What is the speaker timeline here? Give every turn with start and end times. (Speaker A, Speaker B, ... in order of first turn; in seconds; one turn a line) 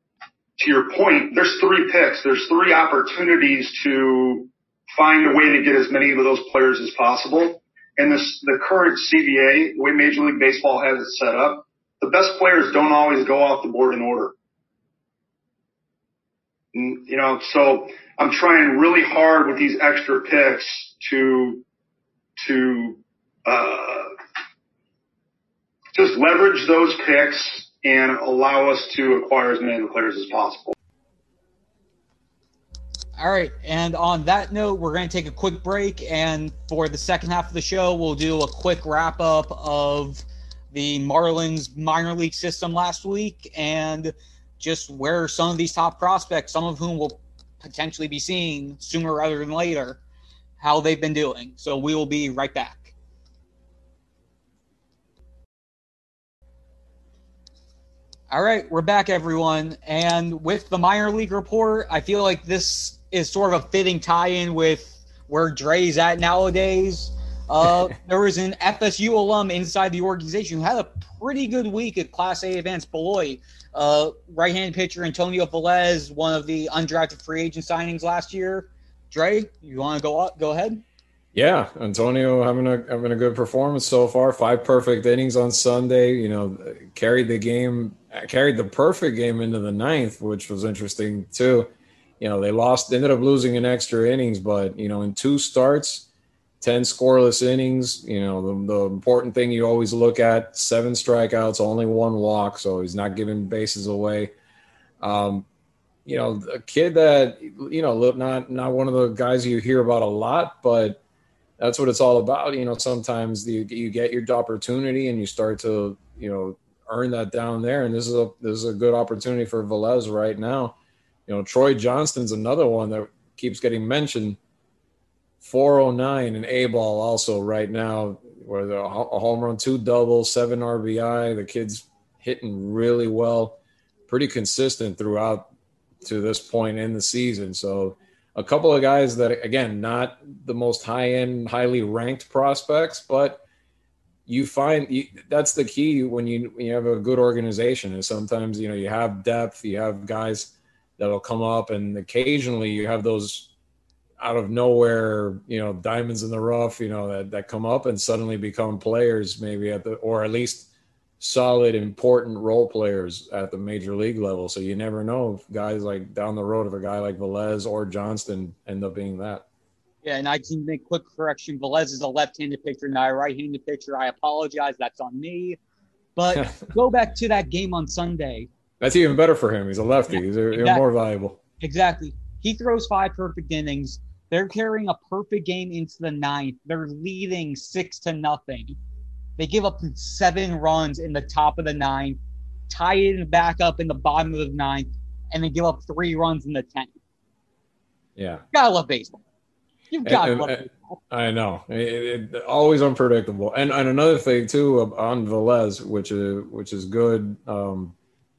Speaker A: 0.6-14.3
Speaker A: 16.7-21.6
Speaker A: 22.4-24.1
Speaker A: 25.9-30.8
Speaker B: 33.2-50.0
Speaker B: 50.6-52.9
Speaker B: 58.3-80.8
Speaker C: 81.3-91.7
Speaker C: 92.2-96.1
Speaker C: 96.6-104.3
Speaker C: 105.0-105.5
Speaker C: 106.0-111.0
Speaker C: 111.6-120.7
Speaker C: 121.3-124.4
Speaker C: 125.4-135.5
Speaker C: 136.0-143.4
Speaker C: 144.2-153.5
Speaker C: 154.2-160.7
Speaker C: 161.2-169.4
Speaker B: 170.0-175.6
Speaker B: 176.2-178.5
Speaker C: 178.8-181.4
Speaker B: 180.5-180.8
Speaker B: 181.6-188.8
Speaker B: 189.4-192.2
Speaker B: 192.7-196.9
Speaker C: 198.2-198.4
Speaker B: 198.5-199.2
Speaker B: 199.9-201.0
Speaker C: 200.0-207.9